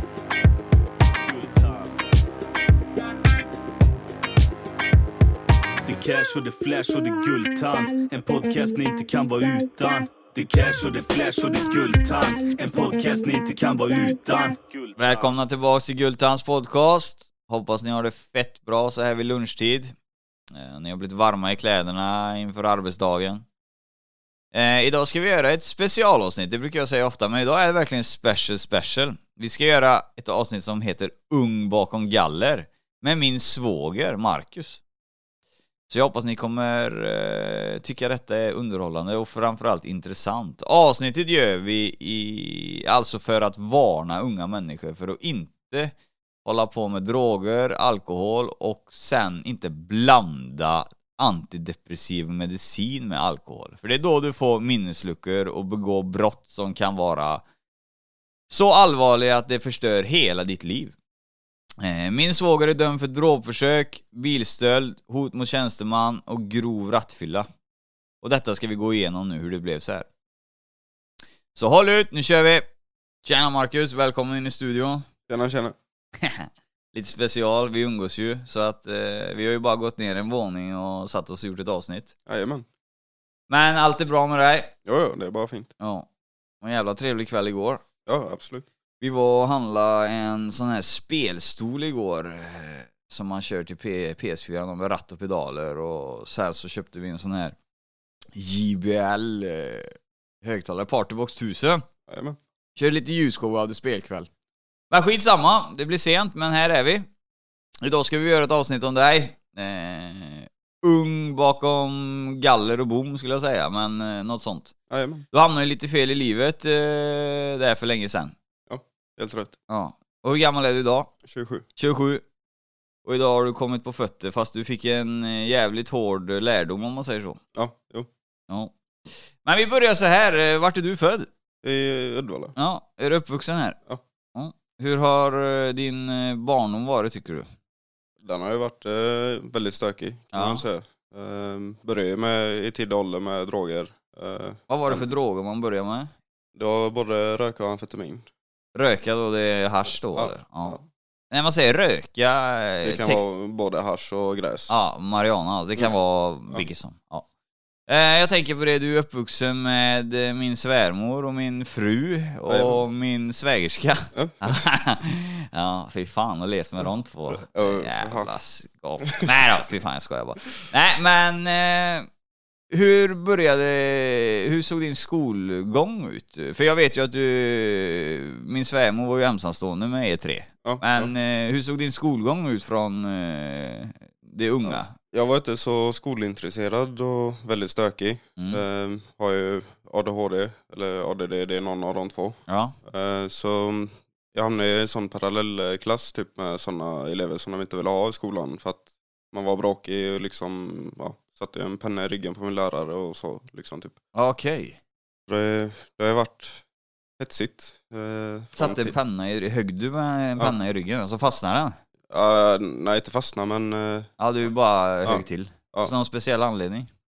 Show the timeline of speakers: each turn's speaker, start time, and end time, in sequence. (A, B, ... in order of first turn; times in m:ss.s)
0:01.2-0:02.0 A
0:05.8-0:15.2 A
0:15.0-0:20.0 B
0:20.5-0:23.4 B
0:24.5-0:34.8 B
0:35.9-0:57.4 B
0:58.5-1:00.9 B
1:01.8-1:07.5 B
1:08.2-1:10.1 B
1:11.5-1:12.7 B
1:13.2-1:15.1 B
1:15.3-1:15.8 C
1:16.2-1:22.1 B
1:22.3-1:22.7 C
1:23.5-1:24.7 B
1:24.8-1:25.7 C
1:25.8-1:26.1 B
1:26.6-1:27.8 B
1:28.1-1:28.7 C
1:29.0-1:37.6 B
1:38.4-1:41.9 B
1:42.1-1:42.4 C
1:42.8-1:44.3 B
1:44.9-1:47.1 B
1:47.8-1:54.8 B
1:54.9-1:55.3 C
1:55.3-1:58.4 B
1:58.7-1:59.6 C
1:59.7-2:01.1 B
2:01.2-2:01.6 C
2:01.8-2:02.2 B
2:03.0-2:07.4 B
2:07.6-2:08.1 C
2:08.5-2:08.7 B
2:09.3-2:11.3 B
2:11.6-2:12.6 C
2:12.6-2:13.8 B
2:14.4-2:17.5 B
2:18.2-2:25.1 C
2:20.3-2:20.6 B
2:24.7-2:26.1 B
2:26.6-2:28.3 C
2:28.8-2:33.2 B
2:30.1-2:30.8 C
2:32.8-2:34.7 C
2:34.7-2:37.3 B
2:37.9-2:52.1 B
2:42.5-2:42.8 C
2:44.1-2:44.6 C
2:47.5-2:48.3 C
2:52.7-3:04.9 B
3:00.6-3:01.1 C
3:04.6-3:24.0 C
3:08.4-3:08.6 B
3:12.5-3:12.8 B
3:24.2-3:24.8 B
3:25.3-3:26.6 C
3:27.2-3:28.9 C
3:28.5-3:31.8 B
3:32.1-3:34.1 C
3:34.2-3:36.9 B
3:35.0-3:35.9 C